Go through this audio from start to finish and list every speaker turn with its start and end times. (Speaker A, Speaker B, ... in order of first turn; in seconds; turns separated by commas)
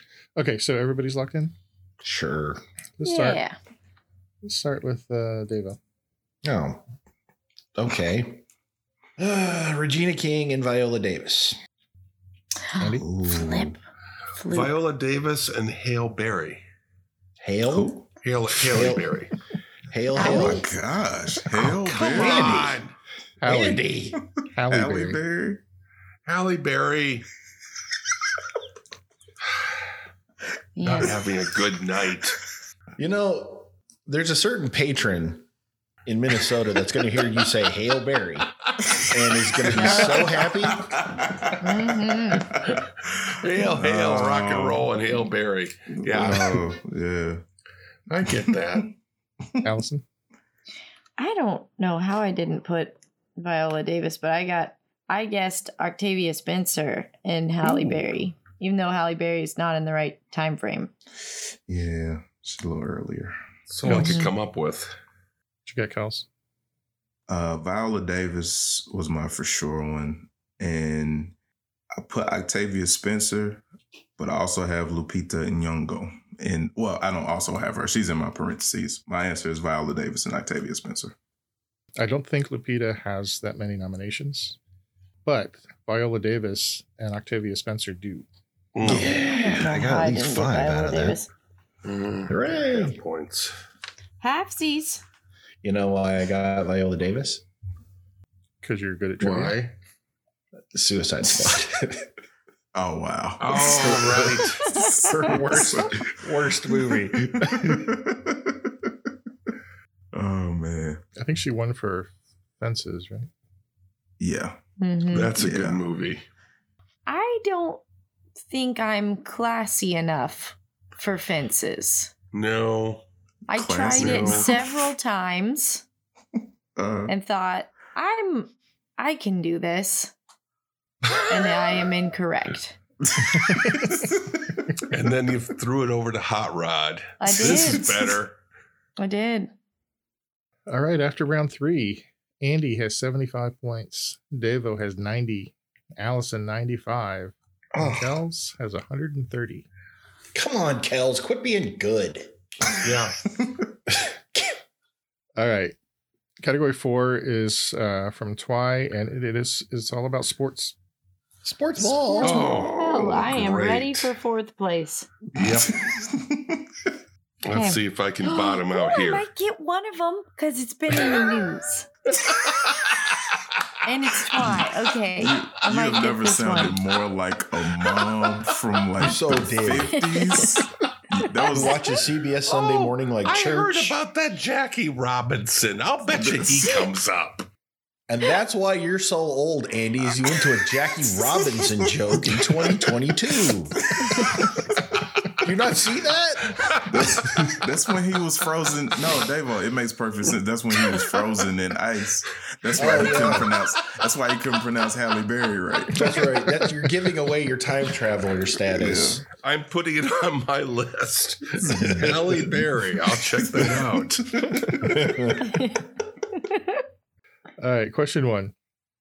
Speaker A: 0.3-1.5, Speaker B: 2.0-2.6, Speaker A: 3.0-3.4, Speaker C: 3.0-3.6, Speaker A: 4.4-5.8, Speaker B: 6.4-6.8, Speaker B: 7.7-8.4, Speaker B: 9.2-11.6, Speaker C: 12.7-13.7, Speaker A: 12.8-13.0, Speaker D: 13.0-13.7, Speaker B: 13.0-13.7, Speaker C: 14.4-14.7, Speaker E: 14.5-16.6, Speaker B: 17.4-17.9, Speaker D: 17.7-18.1, Speaker E: 18.2-19.3, Speaker B: 18.6-19.1, Speaker B: 19.9-20.6, Speaker C: 20.1-20.7, Speaker D: 20.1-22.7, Speaker E: 21.7-22.9, Speaker B: 22.0-22.8, Speaker A: 23.4-23.9, Speaker B: 23.4-24.2, Speaker A: 24.5-25.2, Speaker D: 24.6-25.6, Speaker E: 26.2-27.3, Speaker C: 30.8-31.2, Speaker E: 30.8-32.4, Speaker B: 33.0-35.5, Speaker B: 36.0-40.9, Speaker C: 39.8-40.1, Speaker E: 39.9-40.2, Speaker D: 40.8-41.6, Speaker C: 41.6-42.5, Speaker D: 42.4-42.8, Speaker E: 42.7-46.6, Speaker D: 43.6-44.9, Speaker D: 45.9-47.4, Speaker E: 48.1-48.9, Speaker A: 49.6-50.0, Speaker C: 51.2-60.9, Speaker D: 61.7-63.4, Speaker E: 63.7-64.9, Speaker A: 63.9-64.2, Speaker C: 64.0-64.3, Speaker A: 65.7-66.2, Speaker D: 67.3-71.3, Speaker D: 72.0-73.6, Speaker D: 74.2-81.1, Speaker A: 82.0-84.6, Speaker A: 85.2-88.2, Speaker E: 88.7-89.3, Speaker B: 88.8-91.2, Speaker C: 88.9-91.3, Speaker E: 91.8-93.5, Speaker B: 92.3-93.0, Speaker C: 94.2-95.0, Speaker B: 95.6-97.4, Speaker A: 98.6-99.6, Speaker E: 99.2-99.7, Speaker B: 100.7-102.0, Speaker D: 102.7-104.2, Speaker E: 103.4-104.6, Speaker B: 103.5-107.7, Speaker C: 104.7-105.0, Speaker D: 105.3-106.1, Speaker A: 106.7-107.0, Speaker D: 107.3-108.7, Speaker D: 110.1-111.0, Speaker A: 111.2-113.3, Speaker D: 114.2-114.6, Speaker C: 114.8-115.3, Speaker E: 115.1-116.2, Speaker D: 115.3-115.8, Speaker C: 117.0-117.8, Speaker C: 118.5-122.1, Speaker E: 122.3-123.0, Speaker C: 123.5-125.8, Speaker D: 123.5-124.7, Speaker E: 123.9-124.5, Speaker D: 126.8-127.1, Speaker C: 127.1-130.1, Speaker C: 131.3-132.8, Speaker D: 133.0-134.5, Speaker A: 133.3-134.0, Speaker E: 134.9-138.4, Speaker C: 137.2-138.0, Speaker C: 139.0-139.5, Speaker A: 140.7-149.7, Speaker B: 147.8-148.1, Speaker B: 150.3-152.3, Speaker E: 152.8-153.2, Speaker B: 153.9-154.6, Speaker A: 155.4-155.8, Speaker A: 156.4-160.8, Speaker B: 161.4-162.4, Speaker C: 162.0-165.1, Speaker E: 162.2-164.1, Speaker D: 162.4-163.3, Speaker E: 165.3-165.8, Speaker D: 165.7-166.7, Speaker E: 167.4-169.2, Speaker C: 167.5-171.9, Speaker C: 173.8-176.8, Speaker D: 175.2-181.9, Speaker B: 179.0-180.1, Speaker C: 180.0-180.6, Speaker C: 181.3-181.8, Speaker B: 181.5-184.0, Speaker E: 182.4-187.4, Speaker D: 186.2-186.5, Speaker B: 188.1-193.8, Speaker B: 195.4-196.5, Speaker E: 196.5-196.8, Speaker D: 196.8-206.3, Speaker B: 202.8-203.5, Speaker B: 205.9-209.2, Speaker D: 208.8-209.2, Speaker E: 209.4-214.2, Speaker B: 211.7-212.0, Speaker D: 211.7-212.2, Speaker D: 213.5-215.1, Speaker B: 214.8-215.5, Speaker A: 217.6-218.5